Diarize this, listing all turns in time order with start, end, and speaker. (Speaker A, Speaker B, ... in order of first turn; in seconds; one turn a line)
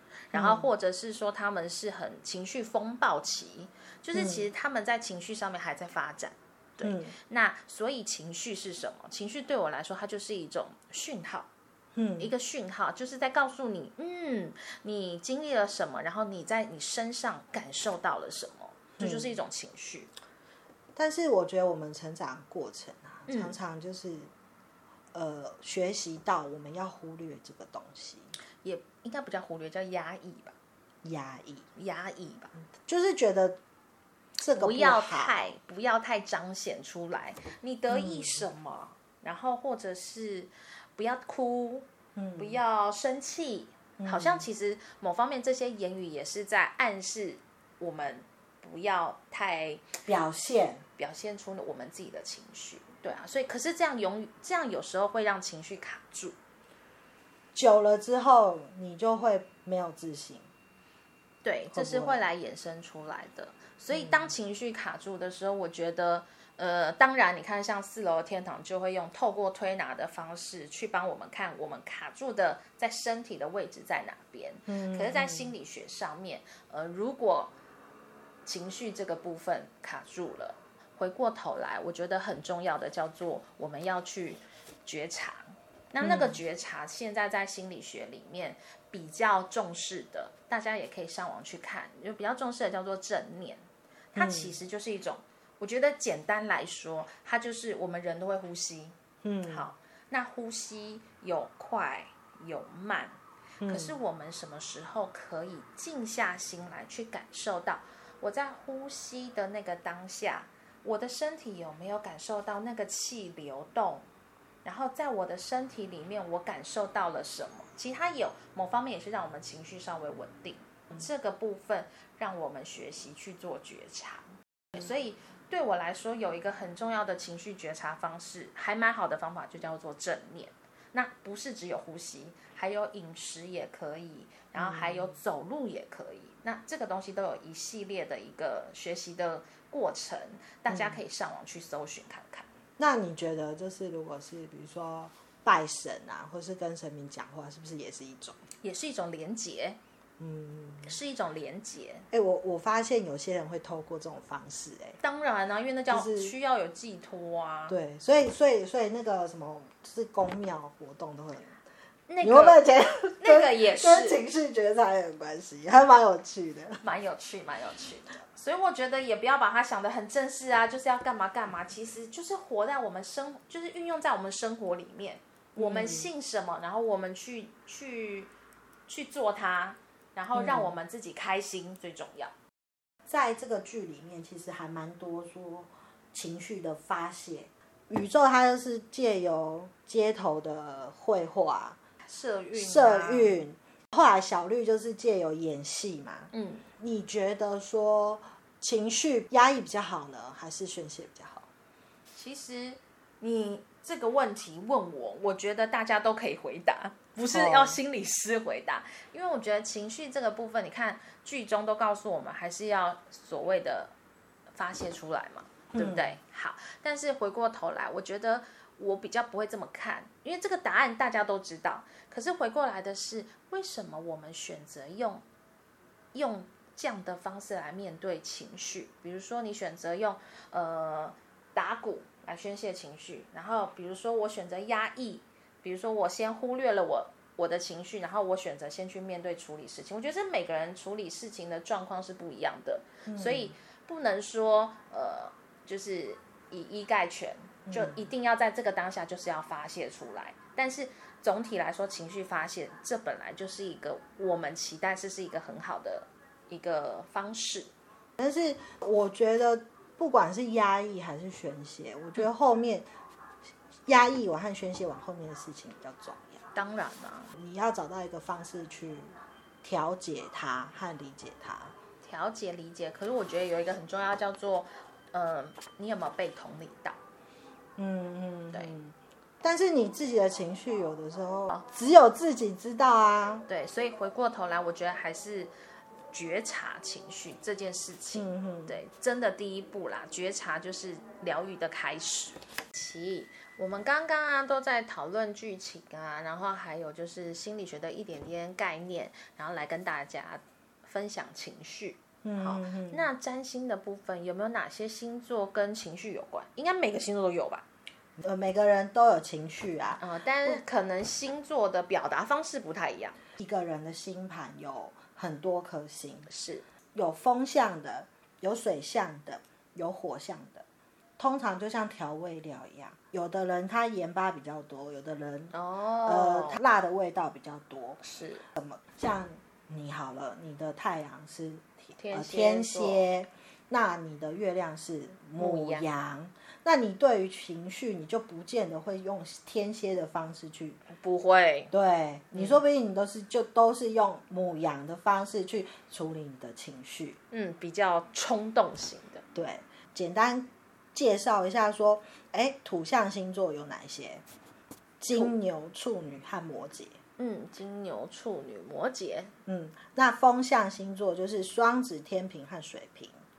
Speaker A: 0.3-11.5
Speaker B: 0.3-0.7
Speaker B: 4.1-4.5
Speaker B: 6.8-7.2
Speaker B: 11.9-12.3
Speaker A: 12.2-20.1
Speaker B: 19.0-19.3
Speaker B: 20.9-24.3
Speaker A: 23.3-23.6
Speaker B: 25.1-28.3
Speaker A: 28.6-30.6
Speaker B: 31.0-31.7
Speaker A: 31.8-32.5
Speaker B: 32.9-33.6
Speaker B: 34.4-35.4
Speaker A: 34.6-41.9
Speaker B: 37.9-38.4
Speaker B: 42.2-42.6
Speaker A: 42.4-49.9
Speaker B: 44.0-44.5
Speaker B: 50.1-50.8
Speaker A: 51.0-56.4
Speaker B: 57.5-60.5
Speaker A: 61.4-77.5
Speaker B: 61.7-62.2
Speaker B: 63.9-64.3
Speaker B: 74.7-75.5
Speaker A: 78.5-114.1
Speaker B: 86.0-86.4
Speaker B: 94.2-94.6
Speaker B: 99.2-99.7
Speaker B: 103.6-104.0
Speaker A: 114.6-142.5
Speaker B: 134.6-135.2
Speaker B: 140.7-141.0
Speaker B: 142.8-148.4
Speaker A: 148.6-149.8
Speaker B: 150.2-151.0
Speaker A: 150.8-152.1
Speaker B: 152.1-155.0
Speaker A: 155.0-157.8
Speaker B: 155.9-156.3
Speaker B: 157.7-161.6
Speaker A: 162.1-162.6
Speaker B: 162.2-166.8
Speaker A: 163.2-164.2
Speaker A: 166.8-178.3
Speaker B: 175.6-176.1
Speaker A: 178.9-182.3
Speaker B: 180.3-180.7
Speaker B: 183.1-191.8
Speaker A: 192.1-193.4
Speaker B: 192.6-201.5
Speaker A: 196.3-196.7
Speaker A: 202.1-213.9
Speaker B: 207.2-207.8
Speaker A: 214.5-225.2
Speaker B: 215.7-216.2
Speaker A: 226.1-257.7
Speaker B: 243.1-243.5
Speaker B: 247.7-248.1
Speaker B: 258.2-262.9
Speaker B: 263.9-266.4
Speaker A: 266.6-267.3
Speaker B: 267.3-271.8
Speaker A: 272.0-277.0
Speaker B: 277.8-283.5
Speaker A: 283.5-285.5
Speaker A: 286.1-307.7
Speaker B: 288.1-288.8
Speaker B: 302.2-303.1
Speaker B: 308.2-310.6
Speaker A: 310.0-313.2
Speaker B: 313.4-316.3
Speaker A: 316.3-316.7
Speaker B: 316.9-320.6
Speaker B: 321.2-325.5
Speaker A: 325.5-326.6
Speaker B: 326.0-328.0
Speaker A: 328.0-328.5
Speaker B: 328.6-340.8
Speaker A: 332.0-333.1
Speaker A: 335.4-335.9
Speaker A: 340.9-341.7
Speaker B: 341.7-347.2
Speaker A: 342.3-342.6
Speaker A: 347.3-349.2
Speaker B: 349.4-354.2
Speaker B: 355.0-357.0
Speaker A: 357.2-359.3
Speaker B: 359.5-363.2